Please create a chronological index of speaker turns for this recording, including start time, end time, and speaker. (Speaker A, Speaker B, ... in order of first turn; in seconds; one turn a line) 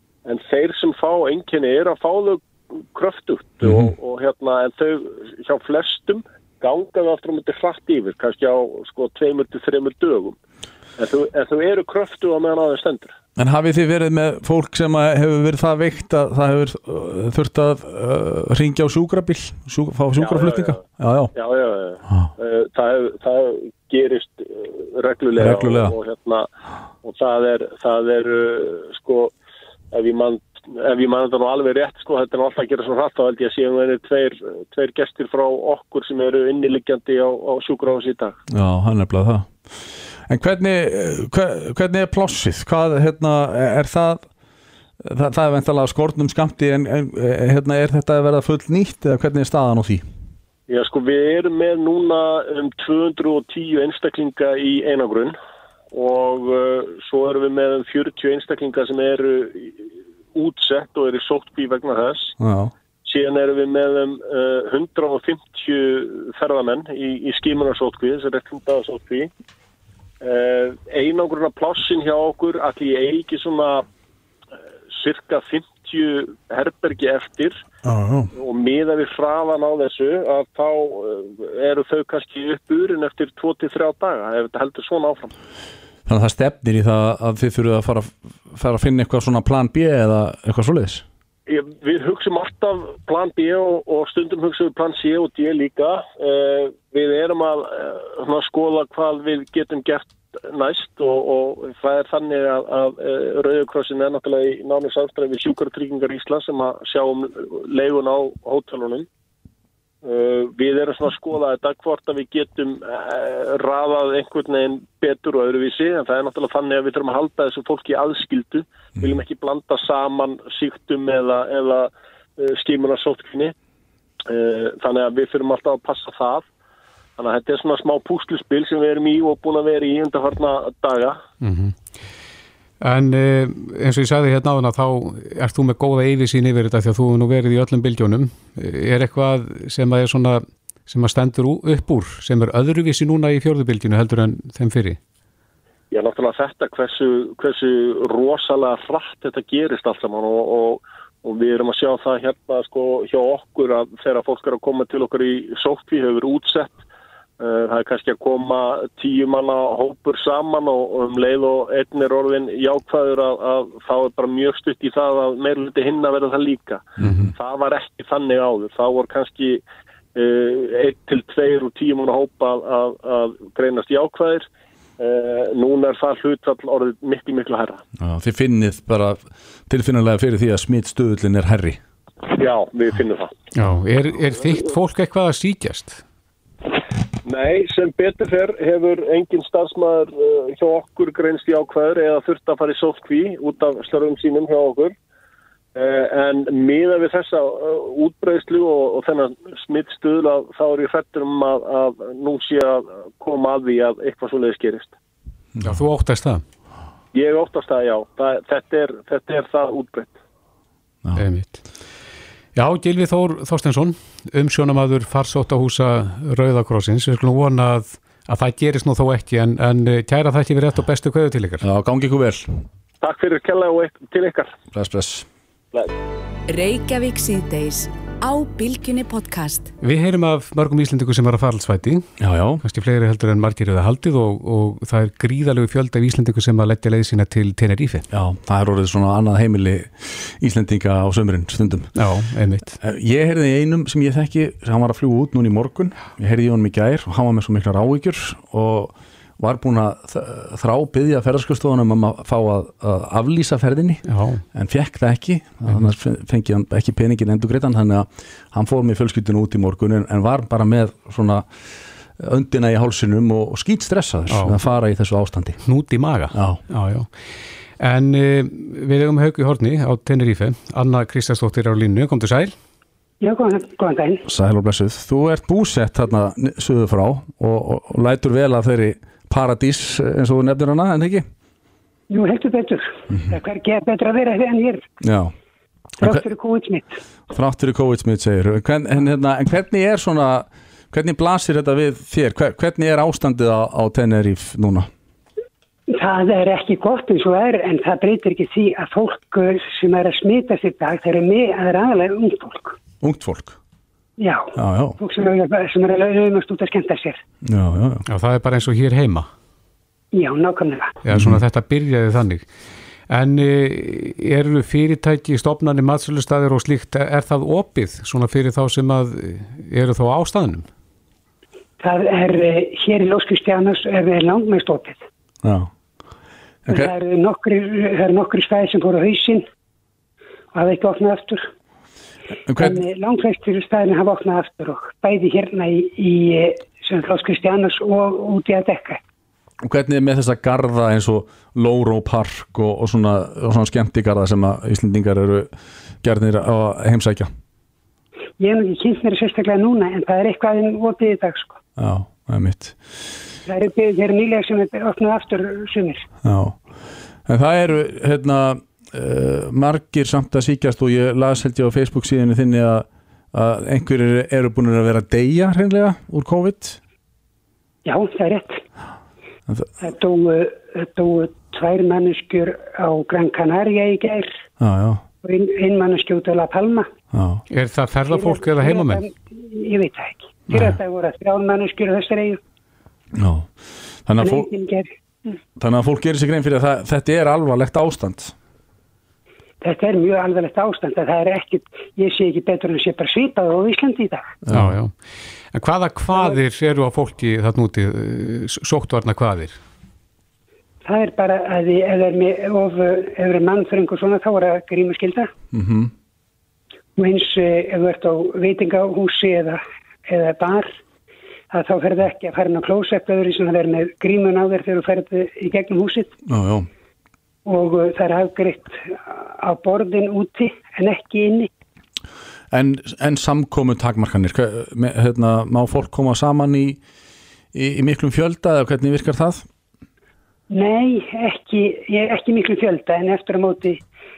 Speaker A: 0.2-10.4
Speaker B: 3.6-3.9
Speaker A: 11.0-13.1
Speaker B: 13.4-21.3
Speaker A: 20.2-20.8
Speaker A: 21.4-26.5
Speaker B: 25.4-25.9
Speaker A: 27.0-29.3
Speaker A: 29.9-38.4
Speaker B: 38.5-44.3
Speaker B: 45.0-50.0
Speaker A: 50.7-55.4
Speaker A: 55.9-62.3
Speaker B: 62.4-62.7
Speaker A: 63.0-69.3
Speaker A: 70.2-73.9
Speaker A: 74.9-77.6
Speaker B: 77.8-78.3
Speaker A: 78.3-85.3
Speaker B: 86.1-91.0
Speaker A: 91.5-109.1
Speaker A: 110.0-123.5
Speaker A: 124.3-126.5
Speaker A: 127.2-131.2
Speaker C: 131.4-131.8
Speaker C: 132.8-145.0
Speaker A: 145.9-156.8
Speaker A: 157.4-169.6
Speaker C: 167.0-167.3
Speaker A: 170.2-174.5
Speaker A: 175.0-177.8
Speaker B: 178.0-181.8
Speaker A: 182.3-183.3
Speaker C: 183.6-186.0
Speaker A: 187.2-194.9
Speaker A: 195.8-204.9
Speaker C: 205.6-206.4
Speaker A: 207.1-210.2
Speaker C: 211.2-211.6
Speaker C: 212.6-221.7
Speaker B: 221.6-222.6
Speaker A: 223.0-224.5
Speaker B: 224.7-225.3
Speaker D: 226.5-229.7
Speaker C: 229.8-232.1
Speaker B: 232.2-232.6
Speaker C: 232.6-238.1
Speaker B: 238.1-241.9
Speaker C: 242.0-242.8
Speaker B: 242.8-261.5
Speaker C: 254.1-254.4
Speaker C: 255.7-255.9
Speaker B: 262.2-265.6
Speaker C: 264.3-264.6
Speaker C: 265.6-267.1
Speaker B: 266.3-266.6
Speaker C: 267.8-272.5
Speaker E: 273.2-274.2
Speaker B: 274.2-281.3
Speaker E: 282.1-284.9
Speaker B: 285.0-285.3
Speaker B: 286.0-286.2
Speaker E: 286.0-287.0
Speaker B: 287.3-294.9
Speaker E: 295.9-302.8
Speaker B: 303.0-303.6
Speaker E: 304.2-307.2
Speaker B: 304.6-305.0
Speaker B: 307.4-308.0
Speaker C: 308.1-309.3
Speaker E: 310.1-311.0
Speaker C: 311.0-312.4
Speaker B: 311.1-311.4
Speaker C: 313.1-320.7
Speaker E: 321.8-325.1
Speaker B: 325.4-325.7
Speaker B: 326.7-326.9
Speaker E: 326.7-329.4
Speaker E: 330.5-331.5
Speaker B: 332.5-332.8
Speaker E: 332.6-339.0
Speaker B: 339.6-345.5
Speaker B: 346.0-347.3
Speaker E: 348.4-351.6
Speaker B: 351.8-352.8
Speaker E: 353.5-356.1
Speaker B: 356.2-356.6
Speaker B: 357.3-366.8
Speaker E: 367.9-368.6
Speaker E: 369.8-374.5
Speaker B: 374.6-375.0
Speaker E: 375.2-376.9
Speaker B: 377.1-377.4
Speaker C: 377.5-379.1
Speaker E: 378.1-382.4
Speaker C: 380.5-380.8
Speaker B: 383.1-384.5
Speaker E: 384.2-385.4
Speaker B: 385.6-388.4
Speaker E: 389.6-394.4
Speaker B: 394.4-394.8
Speaker C: 394.5-394.9
Speaker C: 395.5-399.6
Speaker E: 400.8-405.3
Speaker B: 405.5-405.9
Speaker E: 407.0-410.8
Speaker E: 411.5-416.1
Speaker B: 416.3-416.7
Speaker E: 417.5-421.5
Speaker B: 422.5-426.8
Speaker B: 427.5-429.5
Speaker E: 430.5-433.8